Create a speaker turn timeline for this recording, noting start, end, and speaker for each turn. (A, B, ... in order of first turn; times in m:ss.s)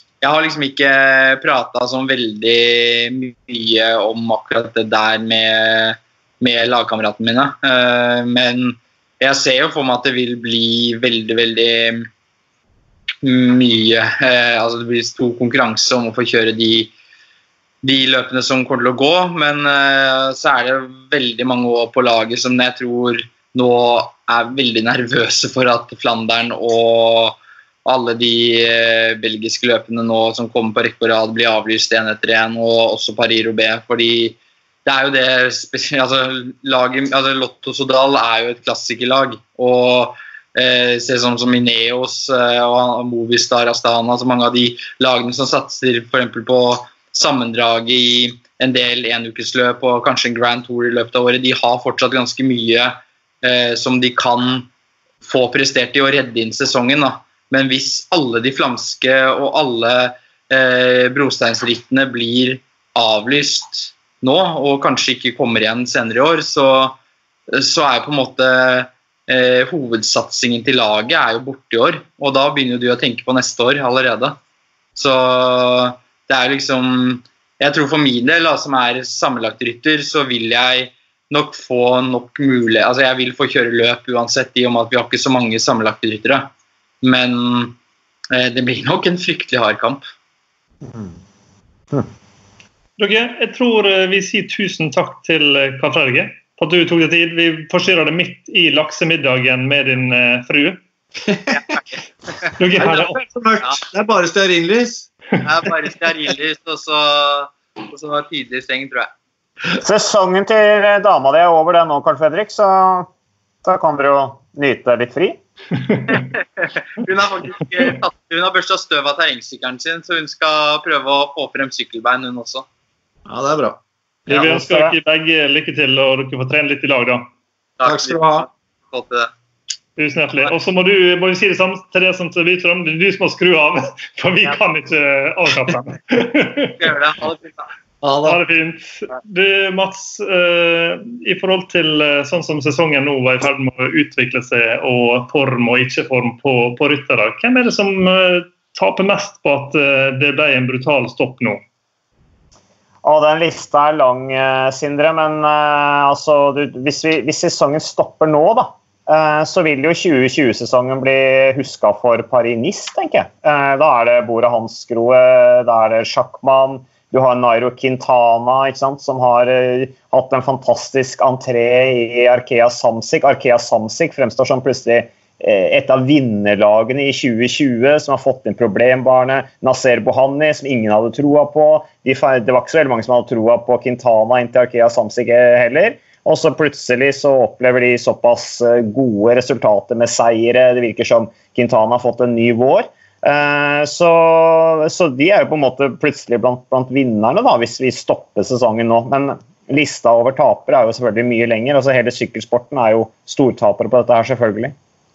0:00.2-0:12.1 A
0:13.2-0:16.9 A
0:17.8-0:54.7 A
0:55.2-1:07.0 A
1:07.5-1:14.4 A
1:15.0-1:26.5 A
1:27.0-1:27.8 A
1:28.3-1:30.0 A
1:30.8-1:31.1 B
1:33.0-1:40.8 C
1:41.3-1:41.6 D
1:42.6-1:43.2 C
1:42.8-1:45.1 D
1:45.4-1:49.1 A
1:49.8-1:53.1 B
1:53.6-1:55.4 B
1:56.1-2:02.6 A
2:03.3-2:03.8 D
2:04.3-2:05.0 B
2:04.3-2:07.2 C
2:07.8-2:09.3 A
2:07.8-2:08.4 D
2:10.0-2:16.8 C
2:16.8-2:17.7 A
2:18.0-2:18.4 D
2:18.2-2:31.6 C
2:33.0-3:24.7 B